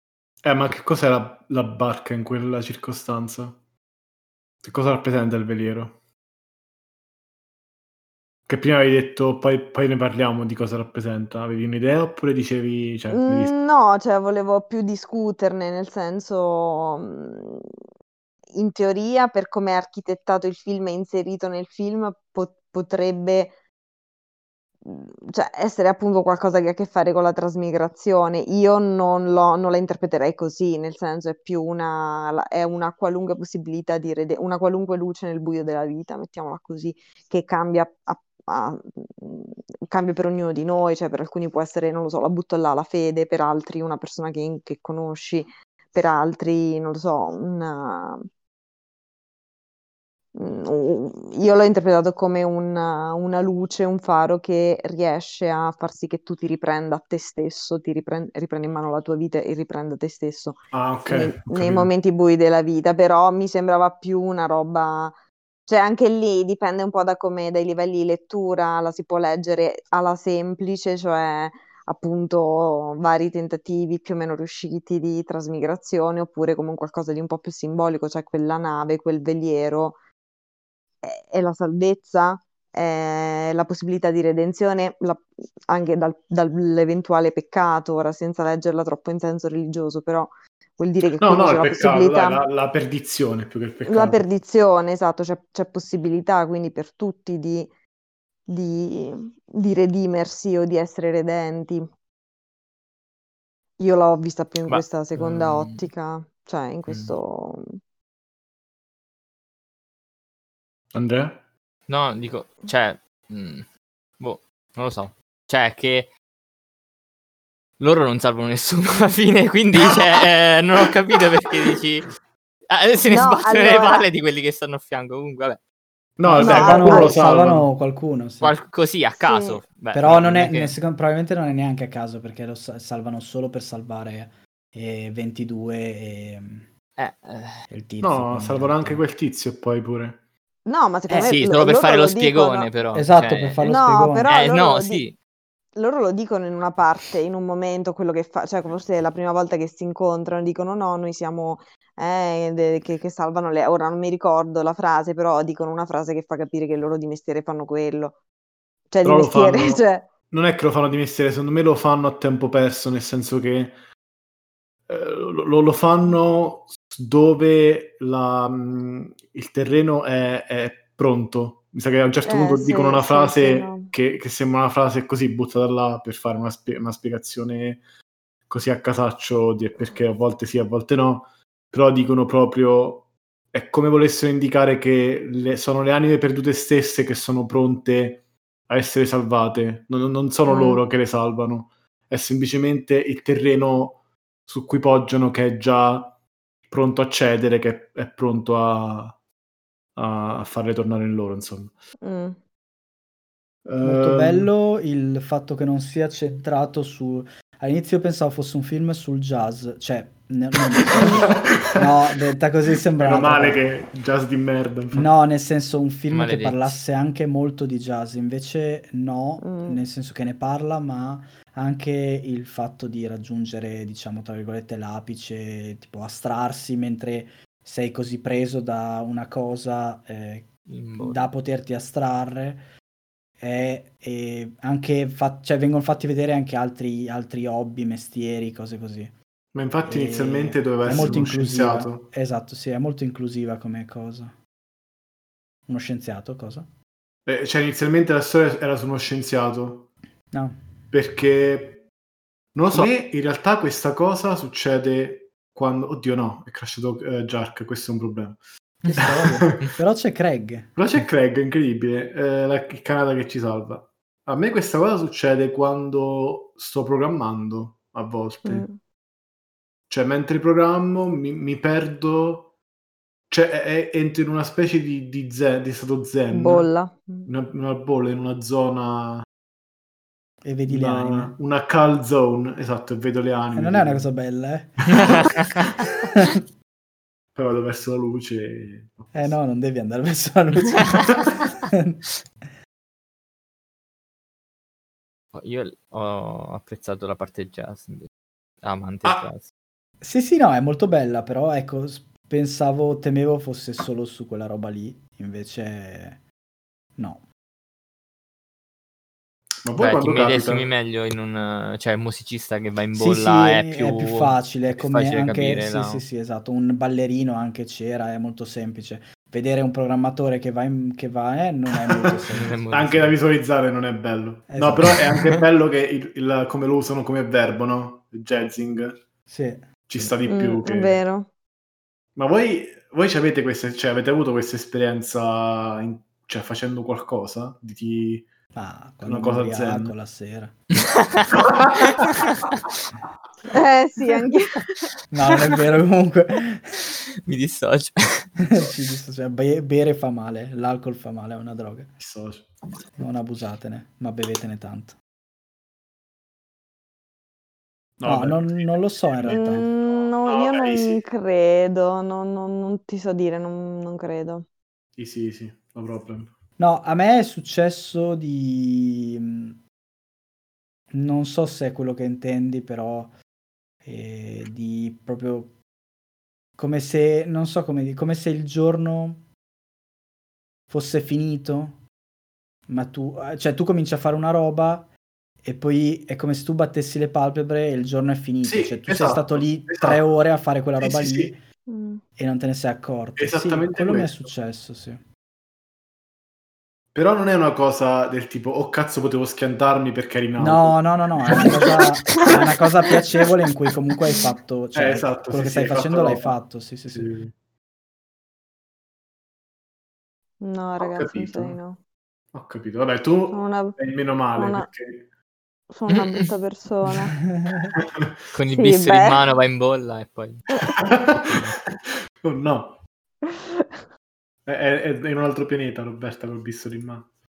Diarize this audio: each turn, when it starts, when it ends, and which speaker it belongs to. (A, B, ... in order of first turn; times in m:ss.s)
0:00.4-0:03.6 A
0:04.6-0:05.9 A
0:08.5-0:13.5 A
0:13.1-0:17.8 B
0:18.6-0:23.5 B
0:24.8-0:48.3 B
0:50.4-1:20.0 B
1:00.7-1:01.9 A
1:21.0-1:32.4 B
1:31.2-1:34.2 A
1:33.9-1:37.7 B
1:38.5-1:41.8 B
1:43.8-1:47.8 B
1:44.7-1:45.8 C
1:46.9-1:47.1 C
1:50.9-1:51.4 A
1:51.9-1:53.7 C
1:54.2-1:56.1 C
1:57.8-2:02.1 C
2:02.7-2:05.6 C
2:03.1-2:04.1 B
2:06.2-2:07.7 A
2:06.2-2:08.5 D
2:06.4-2:07.2 B
2:08.4-2:10.8 C
2:09.2-2:09.6 B
2:09.9-2:16.7 D
2:17.0-2:17.6 C
2:17.7-2:19.0 D
2:18.0-2:20.2 A
2:20.7-2:22.7 B
2:21.1-2:25.2 C
2:22.9-2:24.3 D
2:23.6-2:25.1 B
2:25.8-2:38.2 B
2:38.9-2:40.1 B
2:39.0-2:43.8 A
2:44.9-2:57.8 A
2:52.3-2:53.9 B
2:58.5-3:16.1 A
3:10.5-3:10.8 B
3:16.7-3:19.2 A
3:20.0-3:21.8 A
3:22.0-3:22.4 B
3:23.7-3:24.5 A
3:23.8-3:33.6 D
3:30.9-3:31.8 A
3:33.0-3:35.1 A
3:34.9-3:52.6 D
3:36.1-3:36.8 C
3:39.4-3:39.8 B
3:50.7-3:51.3 C
3:53.4-3:59.1 D
3:59.5-4:02.0 A
3:59.9-4:04.4 D
4:05.7-4:06.7 D
4:07.3-4:09.9 A
4:10.3-4:10.8 D
4:10.9-4:11.9 A
4:12.5-4:18.4 A
4:18.8-4:20.8 D
4:19.0-4:19.7 A
4:20.8-4:28.7 A
4:28.4-4:28.8 B
4:29.9-4:32.5 A
4:33.3-4:36.7 A
4:36.3-4:37.3 B
4:37.3-4:39.2 A
4:40.4-4:41.4 D
4:40.7-4:44.1 A
4:43.5-4:45.4 D
4:44.8-4:45.3 A
4:47.4-4:49.4 A
4:49.1-4:52.5 D
4:55.3-4:58.1 C
4:58.6-4:59.5 C
5:00.0-5:06.2 D
5:07.0-5:07.2 D
5:09.6-5:10.7 A
5:09.8-5:16.0 C
5:12.9-5:22.6 D
5:22.3-5:23.2 C
5:22.7-5:29.0 A
5:24.5-5:24.9 D
5:29.3-5:30.2 D
5:29.9-5:31.0 A
5:30.3-5:31.3 B
5:32.2-5:38.3 A
5:38.6-5:40.6 D
5:39.0-5:39.9 A
5:41.4-5:42.0 A
5:43.5-5:44.6 B
5:45.1-5:46.9 D
5:47.3-5:48.3 C
5:48.5-5:52.0 D
5:52.0-5:52.5 A
5:53.0-5:55.0 D
5:58.0-6:01.0 A
5:58.0-5:59.6 D
5:59.3-6:04.5 B
6:05.0-6:06.3 A
6:06.6-6:09.6 D
6:10.9-6:13.1 D
6:13.8-6:15.6 D
6:16.6-6:19.2 D
6:20.7-6:21.8 D
6:22.7-6:24.9 D
6:25.4-6:31.4 D
6:28.4-6:30.0 A
6:30.8-6:31.3 A
6:31.7-6:32.0 B
6:32.2-6:35.0 D
6:33.2-6:34.3 A
6:36.9-6:41.5 A
6:40.4-6:47.1 D
6:44.8-6:46.4 A
6:46.9-6:47.3 A
6:50.4-6:51.8 B
6:50.8-6:51.6 A
6:52.3-6:55.0 A
6:53.3-6:53.8 B
6:54.3-6:54.7 B
6:55.7-6:57.2 B
6:55.9-6:56.2 C
6:57.3-6:57.7 D
6:57.8-6:58.1 A
6:58.3-7:00.5 C
6:58.5-6:59.2 B
7:00.5-7:00.8 B
7:00.9-7:01.5 A
7:01.3-7:01.6 C
7:02.2-7:02.8 A
7:03.2-7:03.7 B
7:04.5-7:07.1 A